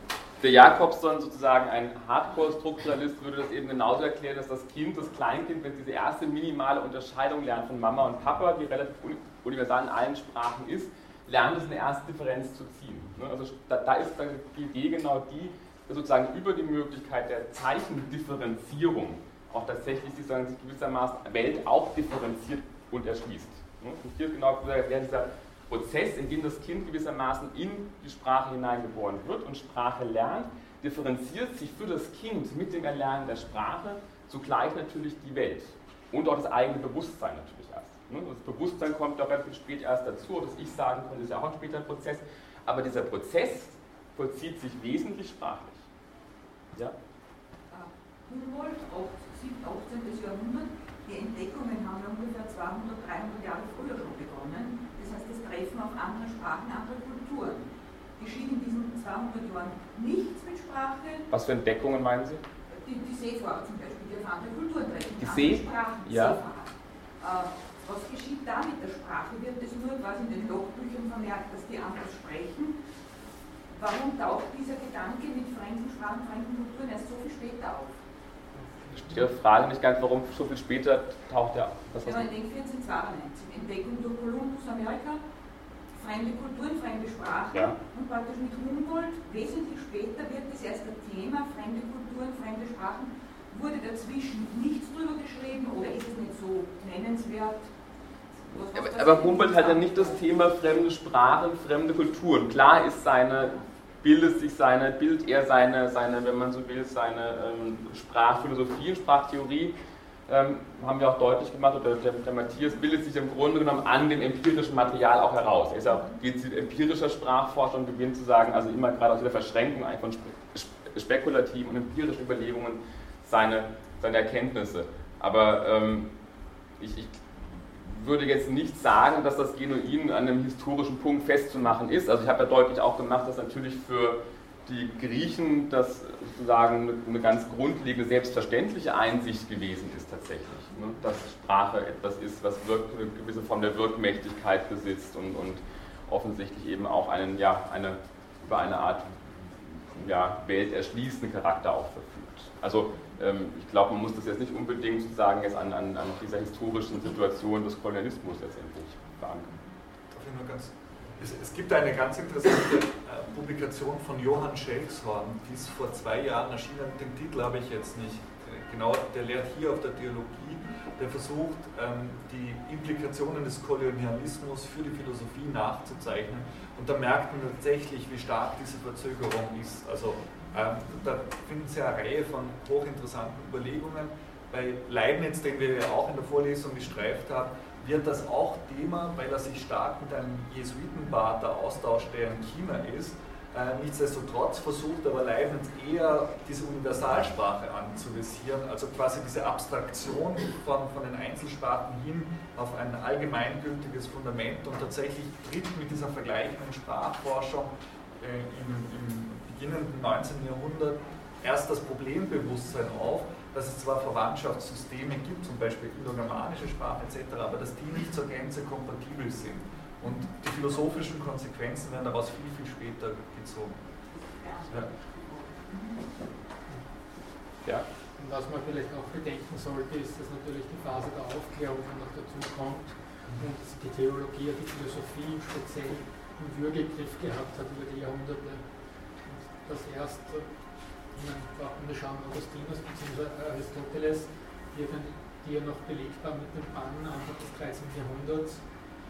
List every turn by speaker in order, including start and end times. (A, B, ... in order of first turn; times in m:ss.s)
0:00.4-0:45.8 A
0:47.7-1:01.3 B
1:01.3-1:02.4 A
1:02.7-1:12.8 B
1:05.2-1:06.4 A
1:13.7-1:18.0 B
1:18.5-1:19.3 C
1:19.0-1:22.3 A
1:22.0-1:25.2 B
1:25.9-1:37.7 B
1:38.5-1:40.2 B
1:38.7-1:49.7 A
1:50.3-2:06.1 A
2:06.8-2:39.5 A
2:40.1-3:43.8 D
3:44.1-3:46.0 B
3:48.2-4:08.7 C